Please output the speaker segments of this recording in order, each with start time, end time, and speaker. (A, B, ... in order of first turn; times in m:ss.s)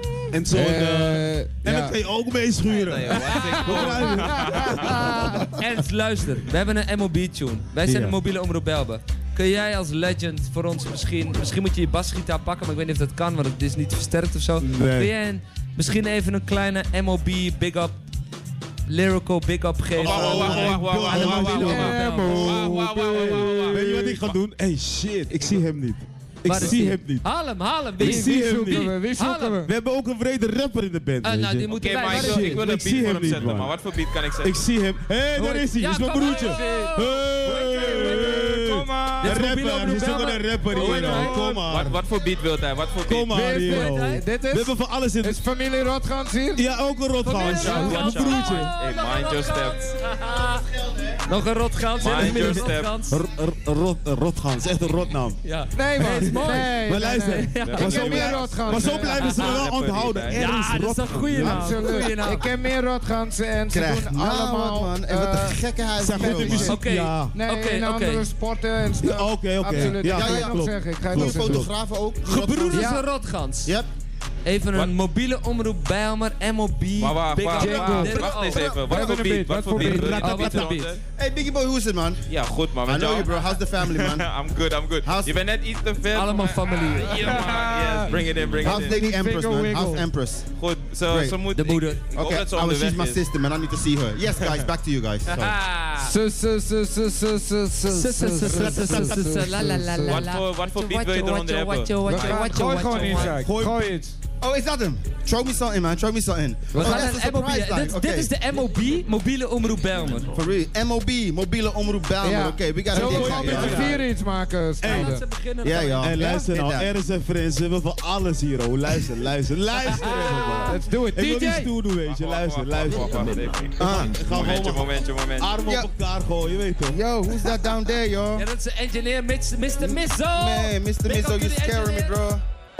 0:00.3-0:05.6 A
0:00.5-0:02.0 B
0:02.6-0:05.0 C
0:03.2-0:03.9 D
0:04.2-0:05.4 B
0:05.0-0:18.0 D
0:07.8-0:08.2 A
0:14.6-0:15.1 A
0:18.8-0:22.4 D
0:19.9-0:24.4 C
0:20.0-0:27.2 A
0:20.3-0:24.1 B
0:25.3-0:25.6 D
0:26.4-0:29.6 D
0:27.9-0:29.0 A
0:28.0-0:29.7 B
0:29.6-0:33.7 A
0:31.2-0:32.6 D
0:31.7-0:34.6 C
0:34.4-0:42.0 A
0:35.4-0:38.4 D
0:38.2-0:39.4 C
0:39.2-0:41.5 D
0:40.7-0:43.4 C
0:43.0-0:45.4 A
0:43.3-0:46.7 B
0:43.4-0:44.3 D
0:46.5-0:48.7 A
0:47.2-0:50.7 D
0:47.3-0:49.9 C
0:47.6-0:48.0 B
0:51.2-0:53.2 D
0:52.0-0:53.0 C
0:52.2-0:55.4 A
0:55.4-0:56.7 D
0:55.7-0:59.3 B
0:56.0-1:02.0 A
0:57.3-0:58.3 D
0:57.6-1:00.5 C
0:59.1-0:59.6 D
1:00.3-1:02.5 D
1:01.3-1:05.6 B
1:03.7-1:06.8 E
1:06.0-1:07.4 A
1:06.1-1:11.7 B
1:06.6-1:08.3 D
1:09.0-1:11.7 A
1:09.7-1:13.0 E
1:12.2-1:13.8 D
1:12.7-1:13.0 B
1:14.4-1:19.0 D
1:17.0-1:21.0 C
1:17.5-1:18.2 B
1:18.1-1:19.0 E
1:18.7-1:20.4 B
1:19.8-1:21.0 D
1:19.8-1:20.7 A
1:21.2-1:22.2 E
1:22.3-1:29.0 C
1:22.8-1:24.3 E
1:25.0-1:25.4 E
1:26.1-1:27.2 D
1:27.0-1:30.1 B
1:28.6-1:30.5 E
1:30.5-1:33.3 C
1:31.0-1:31.4 E
1:31.5-1:32.1 D
1:32.2-1:35.5 E
1:35.3-1:36.0 D
1:35.4-1:36.0 C
1:36.0-1:40.3 B
1:37.9-1:43.4 D
1:38.4-1:39.4 E
1:40.0-1:43.3 C
1:42.0-1:44.1 B
1:43.4-1:43.8 A
1:44.4-1:48.3 E
1:46.7-1:47.0 B
1:46.7-1:50.3 D
1:50.3-1:54.0 E
1:52.2-1:55.2 B
1:52.9-1:54.0 A
1:54.8-1:55.2 A
1:54.8-1:56.2 D
1:55.6-1:56.9 E
1:56.0-2:07.0 A
2:00.6-2:01.7 B
2:02.0-2:05.6 C
2:03.8-2:04.1 E
2:05.6-2:05.9 E
2:06.9-2:08.4 E
2:08.3-2:12.3 D
2:09.8-2:12.4 E